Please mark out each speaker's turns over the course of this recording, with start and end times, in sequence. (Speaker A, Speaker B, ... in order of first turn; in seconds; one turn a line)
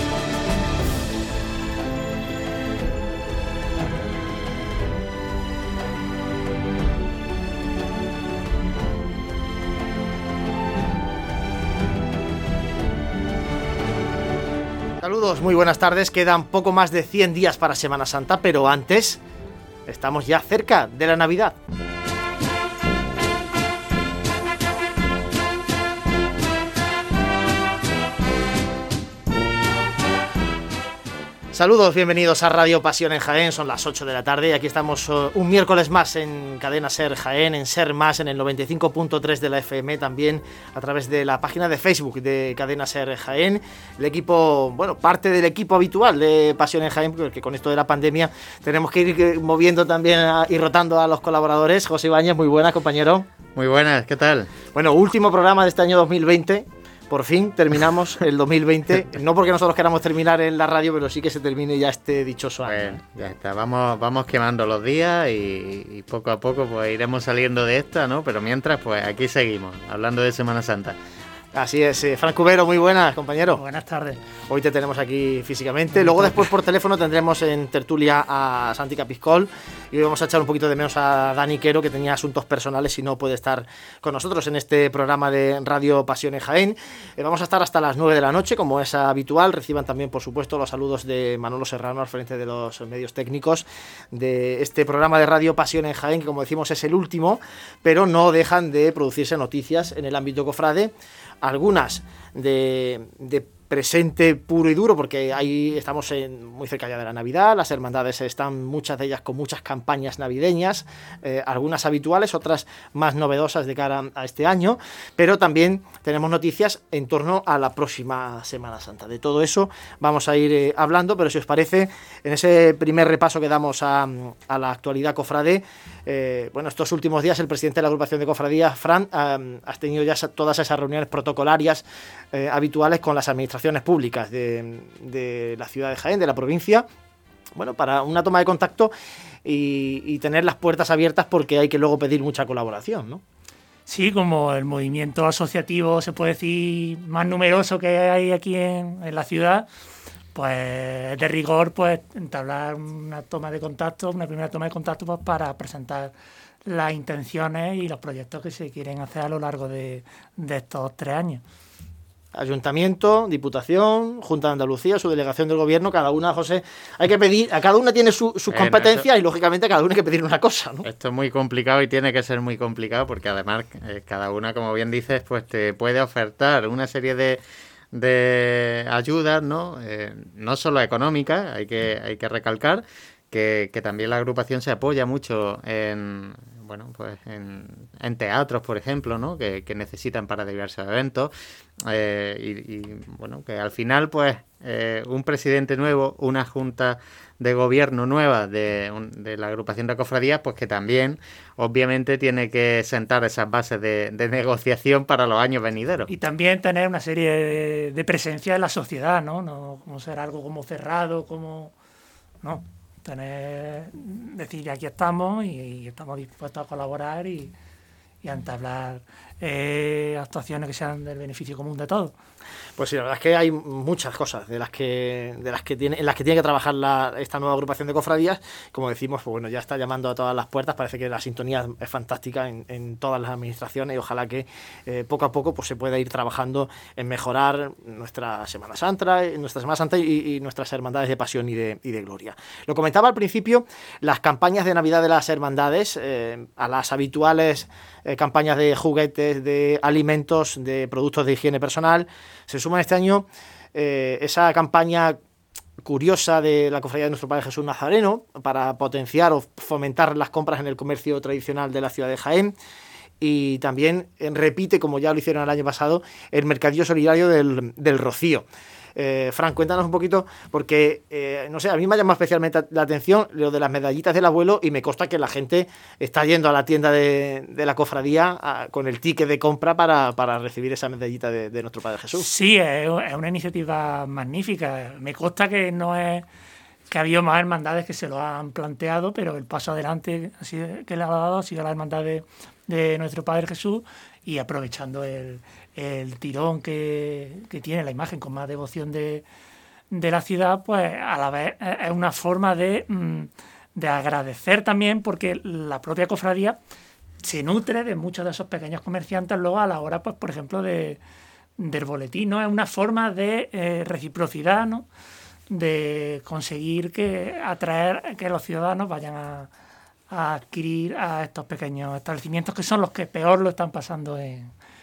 Speaker A: 15.0-19.2
Speaker A: 19.9-21.6
Speaker A: 31.5-53.3
Speaker B: 53.5-54.5
Speaker A: 54.7-63.0
Speaker B: 62.7-71.0
Speaker A: 71.5-73.6
Speaker C: 73.5-74.2
Speaker A: 74.5-136.8
Speaker A: 137.5-138.9
Speaker A: 139.4-143.2
Speaker C: 143.9-149.7
Speaker C: 150.3-156.1
Speaker C: 156.7-161.4
Speaker A: 162.3-170.8
Speaker B: 168.5-169.1
Speaker B: 170.8-177.4
Speaker B: 177.9-191.3
Speaker B: 191.8-206.1
Speaker C: 206.1-211.7
Speaker C: 212.4-217.5
Speaker C: 218.2-222.1
Speaker A: 222.8-255.2
Speaker A: 255.8-262.5
Speaker A: 263.2-282.3
Speaker C: 282.1-286.2
Speaker C: 286.9-299.2
Speaker C: 299.9-306.6
Speaker C: 307.2-311.0
Speaker C: 311.6-314.9
Speaker C: 315.5-319.5
Speaker C: 320.1-324.5